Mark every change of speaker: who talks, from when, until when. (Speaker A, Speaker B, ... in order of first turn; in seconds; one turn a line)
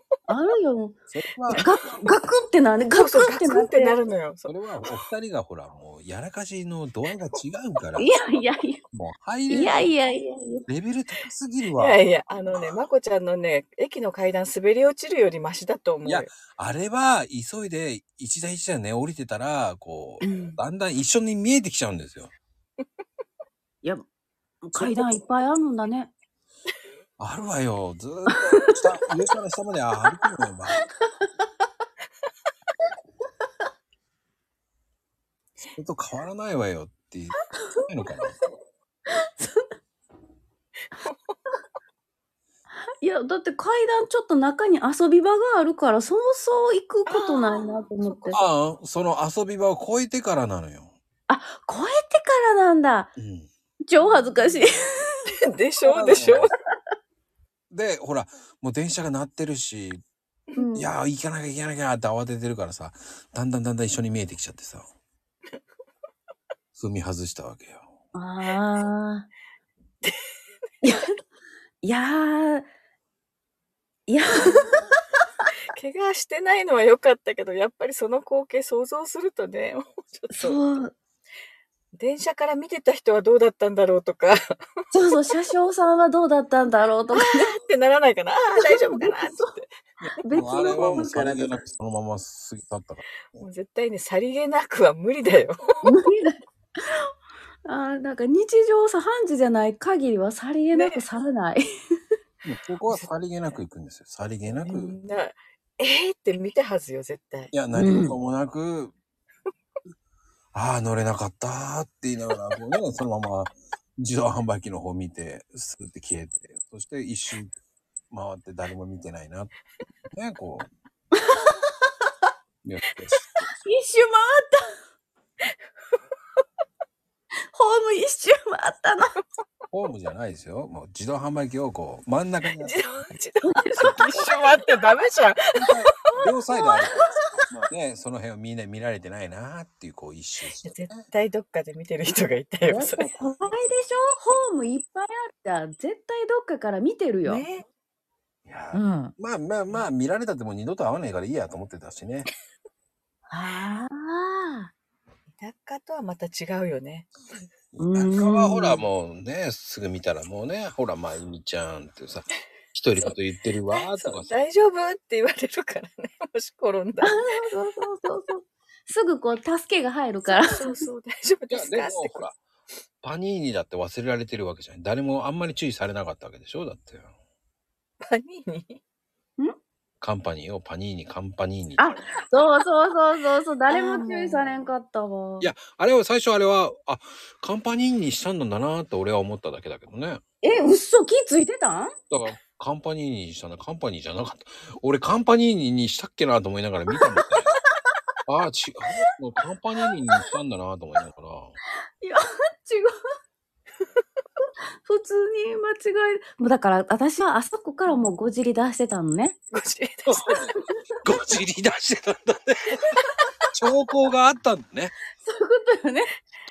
Speaker A: 0.3-1.0
Speaker B: 1.1-1.7
Speaker A: 1.5-4.0
Speaker C: 2.9-4.5
Speaker B: 4.5-8.1
Speaker A: 8.0-8.8
Speaker B: 8.9-9.9
Speaker A: 9.5-10.7
Speaker B: 10.7-12.8
Speaker C: 11.8-16.3
Speaker B: 16.0-22.3
Speaker A: 20.2-20.6
Speaker A: 24.6-26.1
Speaker C: 24.8-25.1
Speaker B: 27.2-30.9
Speaker B: 35.7-37.4
Speaker B: 37.9-38.4
Speaker A: 39.1-39.7
Speaker A: 43.0-48.4
Speaker C: 47.0-48.4
Speaker B: 48.3-50.9
Speaker A: 51.3-53.1
Speaker B: 53.2-53.5
Speaker A: 53.9-55.1
Speaker C: 54.0-54.6
Speaker C: 55.3-56.5
Speaker B: 55.9-56.5
Speaker B: 57.7-60.0
Speaker A: 60.5-60.9
Speaker B: 60.7-64.9
Speaker B: 66.7-67.9
Speaker A: 68.1-69.3
Speaker A: 70.8-71.1
Speaker A: 71.8-72.7
Speaker A: 74.1-74.8
Speaker C: 74.4-74.7
Speaker C: 75.7-80.6
Speaker A: 80.3-80.9
Speaker C: 81.9-84.5
Speaker A: 84.9-87.5
Speaker C: 87.1-89.7
Speaker A: 88.6-89.5
Speaker B: 90.0-93.4
Speaker A: 90.2-91.6
Speaker C: 93.4-95.8
Speaker A: 95.8-96.3
Speaker A: 97.6-101.6
Speaker C: 100.7-101.0
Speaker B: 102.4-104.9
Speaker C: 104.5-107.5
Speaker B: 107.5-108.9
Speaker A: 107.7-108.2
Speaker B: 110.5-117.5
Speaker B: 118.1-119.5
Speaker B: 120.1-120.7
Speaker B: 122.6-123.5
Speaker A: 123.6-124.6
Speaker A: 127.5-129.2
Speaker B: 129.7-132.8
Speaker C: 132.6-136.3
Speaker A: 133.4-134.3
Speaker B: 135.6-141.0
Speaker A: 136.5-137.1
Speaker C: 140.6-143.1
Speaker A: 142.6-147.4
Speaker C: 147.2-147.6
Speaker B: 148.4-152.3
Speaker A: 148.7-149.1
Speaker A: 153.3-154.7
Speaker C: 155.3-157.1
Speaker B: 157.8-164.3
Speaker A: 157.8-158.8
Speaker C: 163.7-167.4
Speaker A: 167.0-170.8
Speaker C: 170.2-172.2
Speaker B: 171.5-172.4
Speaker B: 173.0-177.1
Speaker C: 178.0-178.8
Speaker B: 180.0-182.1
Speaker A: 181.8-185.5
Speaker C: 183.7-184.5
Speaker B: 185.4-190.2
Speaker A: 190.4-191.9
Speaker B: 192.1-197.5
Speaker A: 196.9-197.2
Speaker B: 198.3-201.6
Speaker A: 202.0-202.9
Speaker A: 204.8-209.3
Speaker C: 207.8-208.1
Speaker C: 209.5-210.4
Speaker B: 210.1-210.3
Speaker B: 211.0-212.9
Speaker B: 213.5-214.9
Speaker A: 215.2-216.1